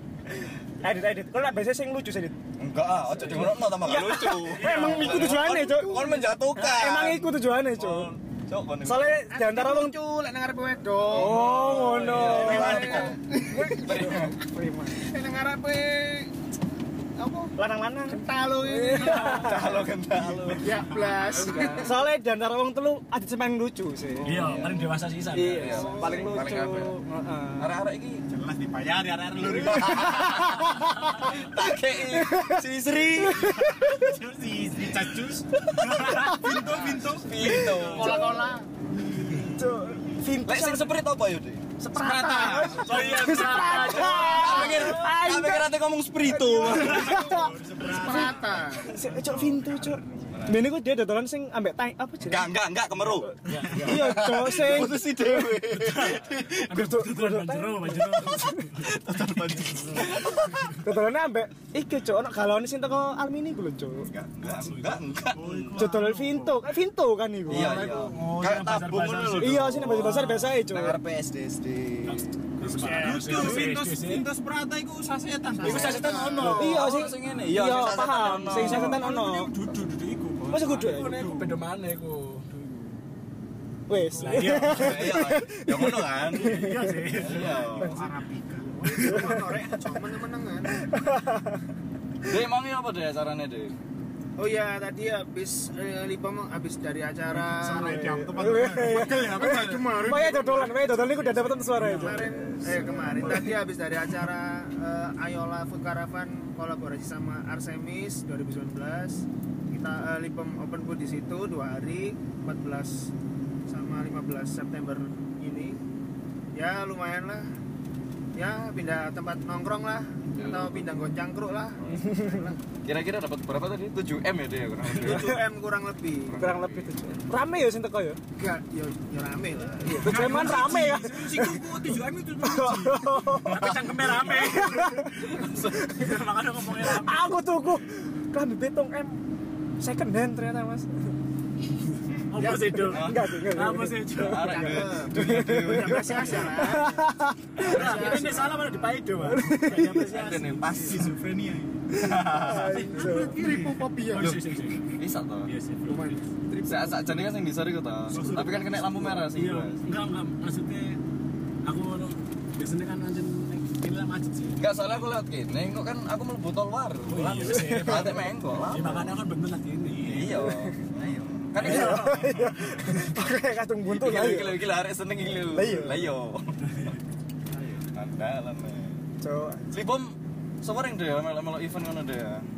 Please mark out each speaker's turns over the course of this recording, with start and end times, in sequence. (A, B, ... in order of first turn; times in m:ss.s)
0:00.8-0:02.4 A
0:02.6-0:09.1 B
0:03.0-0:08.1 A
0:04.3-0:05.3 C
0:05.1-0:06.2 D
0:08.8-0:10.0 A
0:09.3-0:11.5 D
0:11.1-0:14.4 B
0:11.1-0:15.1 A
0:12.0-0:14.4 D
0:14.9-0:16.3 D
0:17.2-0:19.6 D
0:17.6-0:19.9 A
0:18.9-0:19.7 C
0:19.3-0:20.8 B
0:20.2-0:21.7 E
0:20.6-0:22.0 D
0:21.3-0:21.9 B
0:21.4-0:24.8 A
0:24.2-0:27.0 B
0:24.2-0:25.9 C
0:25.3-0:27.8 A
0:25.7-0:26.5 D
0:27.6-0:28.2 B
0:28.3-0:30.5 E
0:29.6-0:30.7 B
0:29.7-0:31.3 A
0:31.2-0:33.6 B
0:32.0-0:32.6 A
0:33.2-0:34.1 A
0:33.3-0:38.0 E
0:35.7-0:38.3 B
0:36.1-0:36.6 A
0:37.4-0:41.0 A
0:37.8-0:38.7 D
0:40.4-0:41.6 B
0:41.8-0:45.7 A
0:41.9-0:43.2 D
0:42.4-0:47.2 B
0:42.7-0:43.8 E
0:42.8-0:44.8 C
0:44.5-0:44.8 D
0:46.2-0:47.6 A
0:46.6-0:50.5 E
0:47.8-0:49.0 D
0:48.9-0:55.5 A
0:50.3-0:50.7 B
0:52.3-0:56.7 B
0:53.5-0:54.8 C
0:55.7-1:00.8 C
0:56.7-0:58.7 A
0:58.2-1:00.8 B
1:00.8-1:04.1 A
1:04.0-1:05.7 B
1:04.4-1:05.2 C
1:05.3-1:06.7 E
1:05.8-1:07.9 A
1:07.5-1:12.3 B
1:07.5-1:10.2 C
1:07.7-1:08.5 E
1:09.4-1:11.0 A
1:12.1-1:14.3 C
1:12.6-1:13.7 D
1:12.8-1:16.8 E
1:15.5-1:16.7 D
1:15.6-1:17.8 C
1:16.4-1:19.0 B
1:16.5-1:19.5 A
1:18.3-1:21.6 E
1:20.5-1:21.3 A
1:20.7-1:22.5 C
1:22.5-1:23.0 E
1:23.9-1:27.2 A
1:24.2-1:25.2 C
1:24.2-1:24.6 E
1:24.5-1:28.0 B
1:26.3-1:27.7 C
1:27.2-1:29.3 E
1:28.8-1:30.8 D
1:29.0-1:29.6 A
1:30.8-1:31.6 A
1:32.3-1:33.8 B
1:34.4-1:38.2 D
1:37.3-1:43.6 E
1:37.9-1:43.6 A
1:38.8-1:41.1 D
1:41.8-1:42.0 C
1:41.9-1:53.1 D
1:53.7-1:55.8 D
1:56.6-1:57.5 D
1:58.4-2:02.6 D
2:00.3-2:01.1 B
2:01.9-2:02.4 A
2:02.8-2:05.4 B
2:04.9-2:06.8 D
2:06.3-2:07.2 B
2:06.4-2:08.2 A
2:08.4-2:10.5 D
2:09.9-2:15.4 A
2:10.0-2:13.5 E
2:13.5-2:17.4 C
2:13.6-2:14.6 B
2:15.4-2:15.9 B
2:16.8-2:19.2 A
2:19.8-2:20.9 A
2:22.1-2:23.4 B
2:22.3-2:24.8 C
2:22.4-2:22.9 D
2:22.7-2:27.9 A
2:24.1-2:26.7 B
2:24.4-2:27.0 D
2:27.6-2:29.1 D
2:27.6-2:31.0 C
2:27.6-2:28.5 B
2:29.2-2:30.0 A
2:30.1-2:31.1 B
2:30.8-2:32.0 E
2:31.9-2:32.9 B
2:32.1-2:33.4 A
2:32.5-2:34.4 D
2:32.7-2:33.9 E
2:34.1-2:35.0 C
2:34.2-2:34.4 B
2:35.0-2:35.5 B
2:35.5-2:36.2 C
2:35.9-2:37.0 D
2:36.6-2:39.9 B
2:38.1-2:41.0 C
2:41.6-2:44.7 C
2:44.6-2:49.2 B
2:47.1-2:50.5 C
2:47.5-2:48.2 A
2:50.0-2:52.8 B
2:50.2-2:50.8 A
2:51.0-2:51.3 E
2:51.6-2:52.3 C
2:51.6-2:54.6 A
2:53.8-2:56.6 B
2:55.4-2:56.2 A
2:57.5-2:57.8 D
2:57.9-2:59.0 B
2:59.2-2:59.7 A
2:59.7-3:02.4 B